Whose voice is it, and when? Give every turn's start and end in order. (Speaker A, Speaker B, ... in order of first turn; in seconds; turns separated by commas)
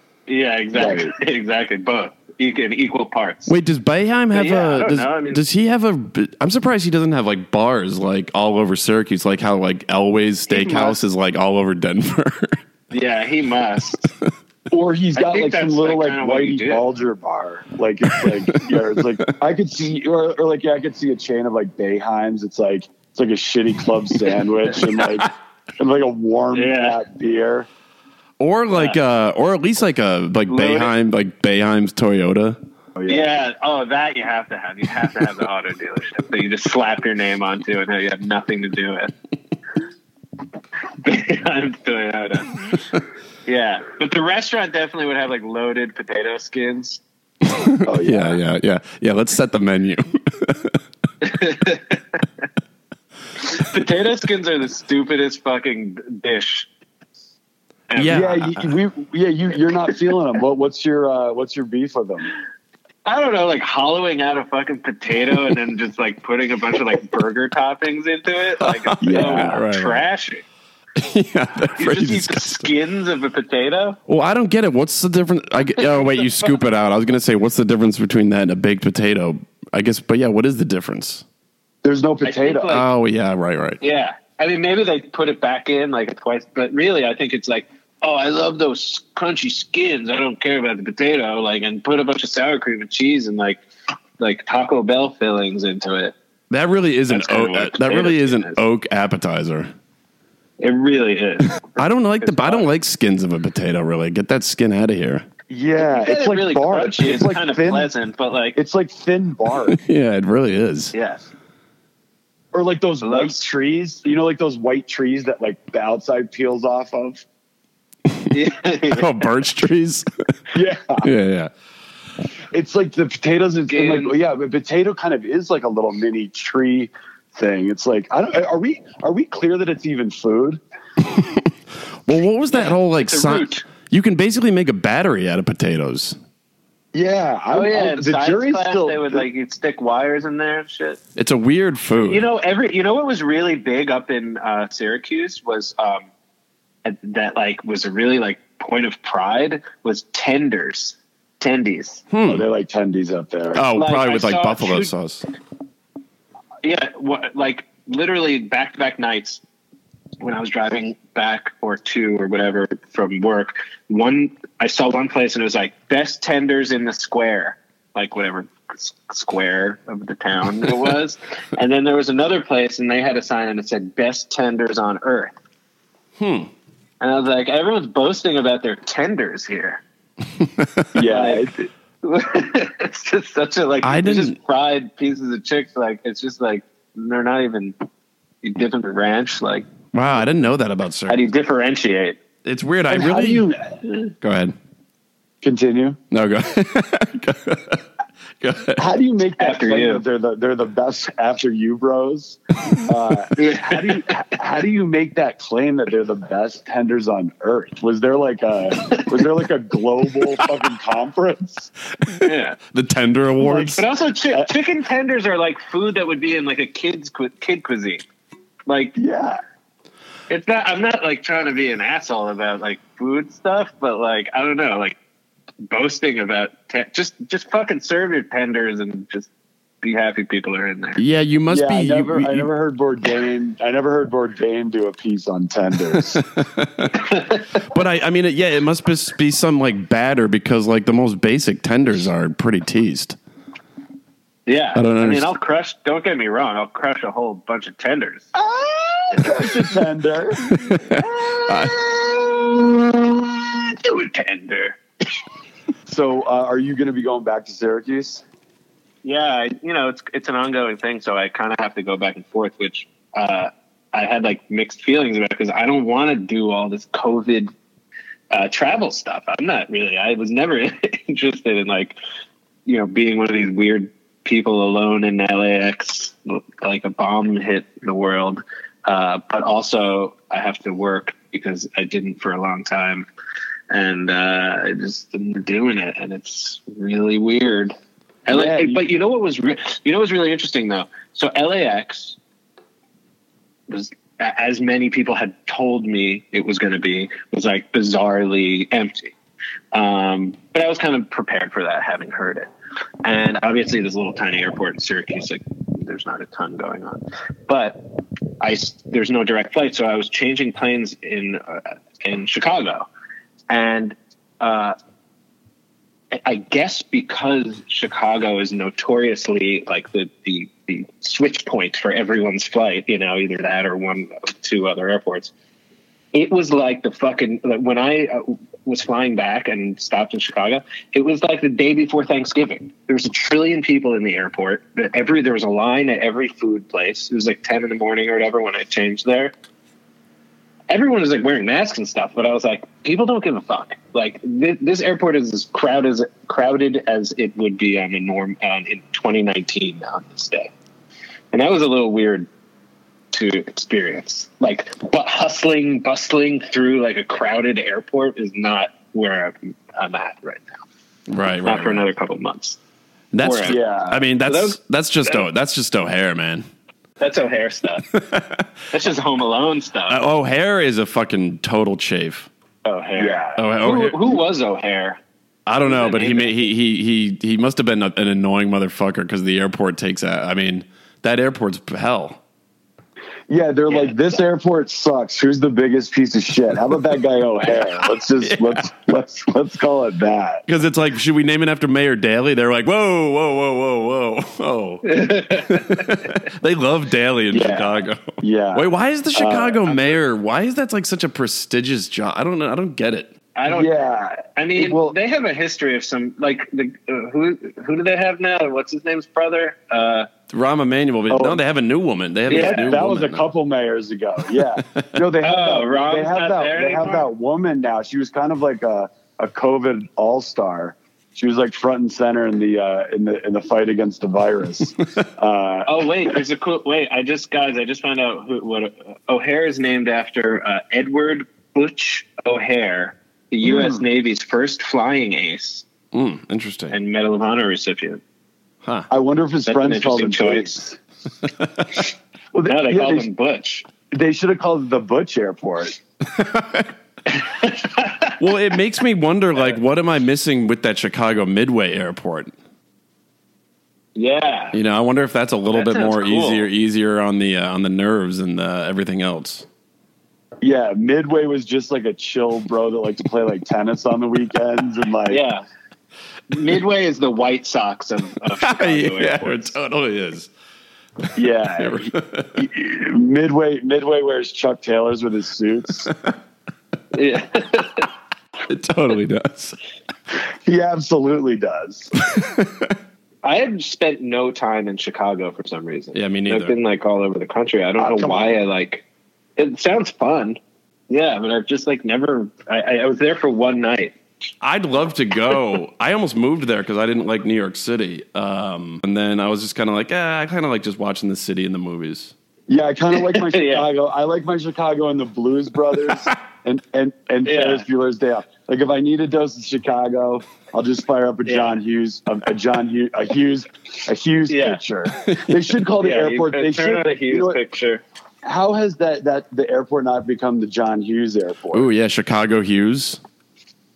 Speaker A: 0.3-3.5, Speaker B: 0.7-1.1, Speaker C: 3.5-12.6, Speaker A: 4.3-5.4, Speaker B: 10.5-11.0, Speaker A: 12.9-14.1, Speaker B: 14.7-27.7, Speaker A: 15.1-16.8, Speaker C: 18.2-19.2, Speaker A: 26.5-27.0, Speaker C: 28.4-32.6, Speaker A: 30.5-30.9, Speaker B: 33.0-33.3, Speaker A: 33.1-39.1, Speaker A: 41.0-42.6, Speaker A: 43.5-47.0, Speaker C: 47.4-50.8, Speaker B: 47.8-48.4, Speaker A: 51.2-52.2, Speaker A: 53.4-56.7, Speaker A: 57.9-58.3, Speaker C: 58.0-58.7, Speaker B: 58.1-62.3, Speaker A: 63.0-70.4, Speaker C: 68.6-70.0, Speaker B: 69.0-69.6, Speaker C: 71.0-72.7, Speaker A: 71.8-74.0, Speaker C: 74.1-81.2, Speaker B: 81.8-82.8, Speaker A: 82.2-82.8, Speaker C: 82.7-83.8, Speaker A: 83.8-93.6, Speaker A: 94.2-96.1, Speaker C: 96.5-99.7, Speaker A: 97.1-98.6, Speaker A: 100.6-102.7, Speaker C: 101.8-105.2, Speaker B: 105.5-107.9, Speaker A: 105.8-108.6, Speaker B: 108.5-109.8, Speaker C: 109.7-110.9, Speaker A: 110.9-111.3, Speaker B: 112.5-117.2, Speaker A: 113.0-113.3, Speaker A: 118.3-119.2, Speaker C: 118.9-120.1, Speaker B: 120.5-121.1, Speaker C: 121.0-121.5, Speaker B: 122.5-130.6, Speaker A: 123.7-124.1, Speaker C: 131.2-131.5, Speaker C: 132.1-136.2, Speaker A: 132.5-133.7, Speaker B: 136.9-139.2, Speaker A: 137.5-141.0, Speaker C: 141.2-142.2, Speaker A: 142.0-146.1, Speaker A: 146.8-152.0, Speaker C: 152.1-152.4, Speaker B: 152.3-153.7, Speaker C: 153.5-155.2, Speaker A: 153.7-154.9, Speaker A: 156.6-159.4, Speaker A: 160.2-175.3, Speaker C: 176.2-176.5, Speaker A: 177.0-179.8, Speaker C: 180.4-181.0, Speaker B: 180.9-181.7, Speaker A: 181.1-181.5, Speaker A: 182.0-187.7, Speaker C: 183.8-184.3, Speaker A: 188.4-189.7, Speaker C: 189.9-191.2, Speaker A: 191.1-192.2, Speaker C: 192.4-193.5, Speaker B: 192.9-193.8, Speaker C: 194.2-194.5, Speaker B: 195.4-196.0, Speaker C: 196.1-197.8, Speaker C: 198.4-198.8, Speaker B: 198.8-211.7, Speaker A: 199.4-200.0, Speaker A: 203.3-204.1, Speaker C: 212.1-213.8, Speaker A: 212.2-212.6, Speaker B: 213.4-213.7, Speaker A: 213.6-218.0, Speaker A: 218.7-218.9, Speaker B: 218.9-219.4, Speaker A: 220.3-225.0, Speaker A: 225.7-229.3, Speaker A: 229.8-231.0, Speaker C: 231.0-232.5, Speaker B: 231.5-236.2, Speaker C: 235.9-243.2, Speaker A: 236.9-237.6, Speaker A: 244.4-248.3, Speaker C: 244.7-245.3, Speaker B: 248.4-250.5, Speaker C: 250.5-251.8, Speaker A: 250.9-254.8, Speaker B: 255.8-258.2, Speaker A: 259.0-267.5, Speaker A: 268.3-272.0, Speaker A: 272.6-283.1, Speaker A: 283.7-287.8, Speaker A: 288.3-292.2, Speaker B: 288.3-288.8, Speaker A: 293.7-299.1, Speaker A: 299.7-302.5, Speaker A: 303.0-307.8, Speaker A: 308.4-312.9, Speaker A: 313.5-314.8, Speaker A: 316.1-325.3, Speaker A: 326.1-339.3, Speaker A: 340.7-350.5, Speaker A: 351.3-352.3, Speaker A: 353.1-360.6, Speaker C: 361.1-361.9, Speaker A: 361.4-362.6, Speaker C: 363.1-366.4, Speaker A: 363.2-363.6, Speaker B: 363.5-364.0, Speaker A: 364.2-365.2, Speaker A: 367.0-367.9, Speaker C: 367.9-368.5, Speaker A: 368.7-370.0, Speaker C: 369.9-372.3, Speaker A: 372.6-375.0, Speaker B: 373.0-373.4, Speaker C: 373.4-374.0, Speaker C: 375.5-382.2, Speaker A: 375.6-376.4, Speaker B: 383.3-390.4, Speaker A: 383.7-384.1, Speaker C: 388.2-388.7, Speaker C: 390.5-403.1, Speaker A: 394.8-396.1, Speaker B: 397.3-399.6, Speaker A: 399.7-399.9, Speaker A: 403.4-410.1, Speaker B: 403.5-404.9, Speaker C: 410.3-413.2, Speaker B: 411.1-411.4, Speaker A: 412.3-412.7, Speaker B: 412.3-425.8, Speaker C: 414.4-414.9, Speaker A: 415.2-417.1, Speaker A: 425.6-435.6, Speaker B: 433.4-433.8, Speaker C: 435.9-436.8, Speaker A: 436.7-438.0, Speaker B: 438.9-440.8, Speaker A: 439.4-440.6, Speaker C: 441.4-441.6, Speaker B: 442.3-443.1, Speaker A: 442.4-443.6, Speaker B: 443.9-445.8, Speaker C: 446.0-446.7, Speaker A: 447.1-448.2, Speaker C: 448.2-452.3, Speaker A: 453.9-454.6, Speaker C: 454.5-459.5, Speaker A: 455.5-456.5, Speaker B: 460.4-465.2, Speaker A: 465.1-465.4, Speaker A: 466.3-469.6, Speaker C: 468.4-470.3, Speaker B: 471.1-475.9, Speaker C: 471.6-472.4, Speaker A: 476.9-477.9, Speaker C: 478.5-479.6, Speaker B: 480.4-481.9, Speaker C: 482.0-482.7, Speaker A: 483.2-488.8, Speaker C: 485.9-486.5, Speaker B: 487.8-488.4, Speaker A: 489.4-494.0, Speaker C: 494.4-502.1, Speaker B: 502.5-517.4, Speaker A: 502.9-503.7, Speaker A: 507.2-507.6, Speaker A: 511.2-511.6, Speaker A: 514.3-514.6, Speaker C: 515.0-515.4, Speaker A: 515.8-517.8, Speaker B: 518.2-521.7, Speaker C: 521.5-523.0